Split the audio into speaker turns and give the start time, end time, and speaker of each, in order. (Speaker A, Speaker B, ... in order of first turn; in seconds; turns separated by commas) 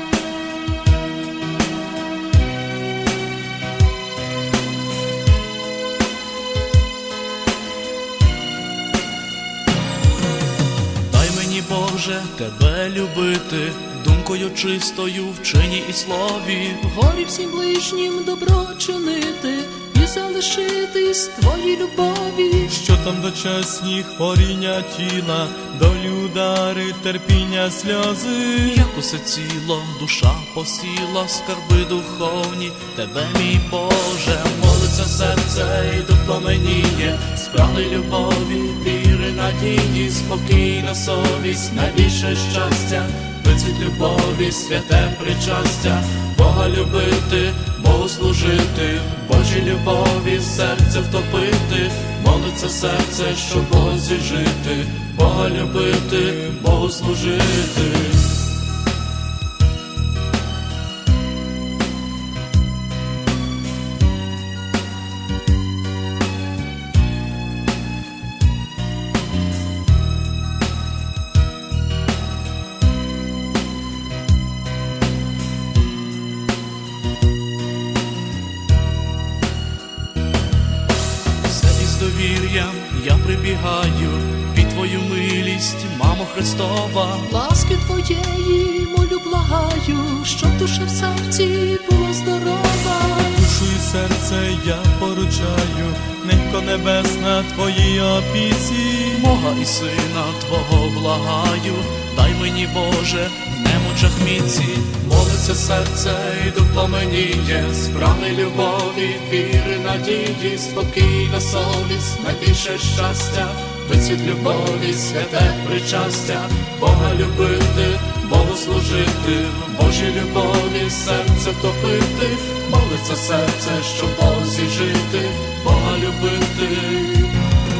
Speaker A: 11.1-16.8, Speaker B: 16.8-22.7, Speaker C: 22.7-28.9, Speaker A: 28.6-58.4, Speaker A: 81.4-87.3, Speaker B: 87.2-93.4, Speaker C: 93.3-99.3, Speaker A: 99.1-127.4